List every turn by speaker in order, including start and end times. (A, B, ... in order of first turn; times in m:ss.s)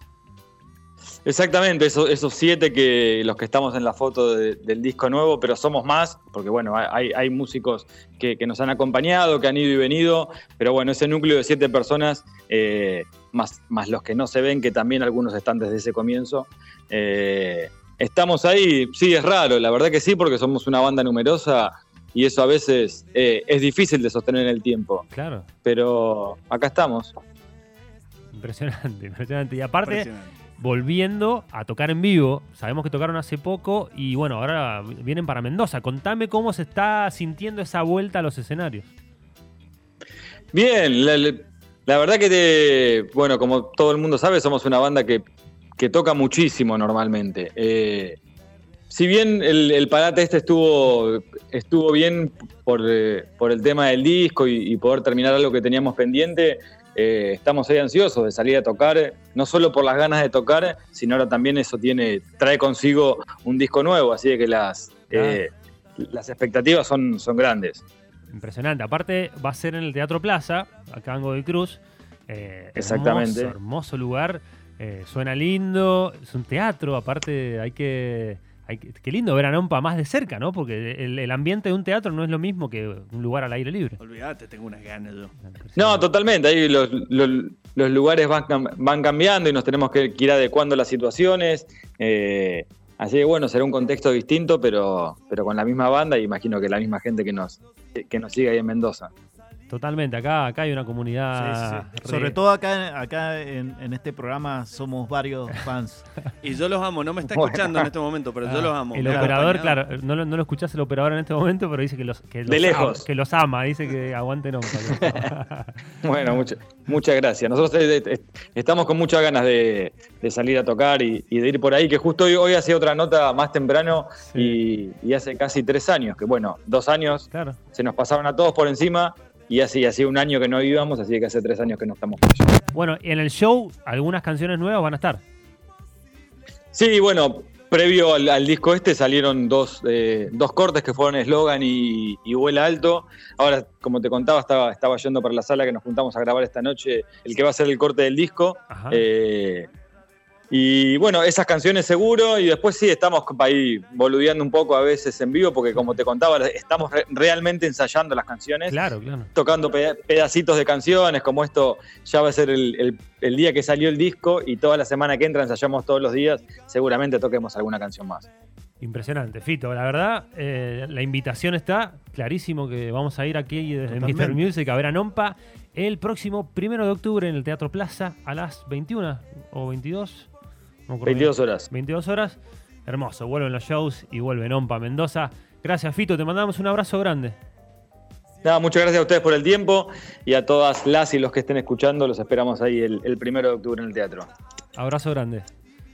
0:01.2-0:25.0 A
0:25.1-0:25.5 B
0:25.6-0:27.1 A
0:28.3-0:38.9 B
0:29.8-0:30.3 C
0:40.5-0:45.2 A
0:45.8-0:48.2 A
0:48.9-1:07.8 A
1:05.1-1:05.4 B
1:08.3-1:24.0 B
1:12.8-1:13.5 A
1:24.0-1:25.3 C
1:25.4-1:26.0 B
1:25.8-1:39.1 A
1:39.7-1:42.4 B
1:41.3-1:46.0 D
1:46.4-1:49.8 C
1:47.3-1:47.9 A
1:48.4-1:55.7 B
1:52.5-1:53.1 A
1:56.0-2:12.4 A
2:04.3-2:04.6 B
2:07.3-2:07.6 B
2:12.7-2:15.2 B
2:16.7-2:29.7 A
2:28.7-2:29.0 B
2:30.5-2:38.8 A
2:38.7-2:39.3 B
2:39.3-2:48.3 A
2:48.8-3:00.3 B
2:53.9-2:54.4 D
3:00.9-3:07.4 B
3:01.0-3:01.7 A
3:08.4-3:14.3 A
3:14.8-3:15.5 B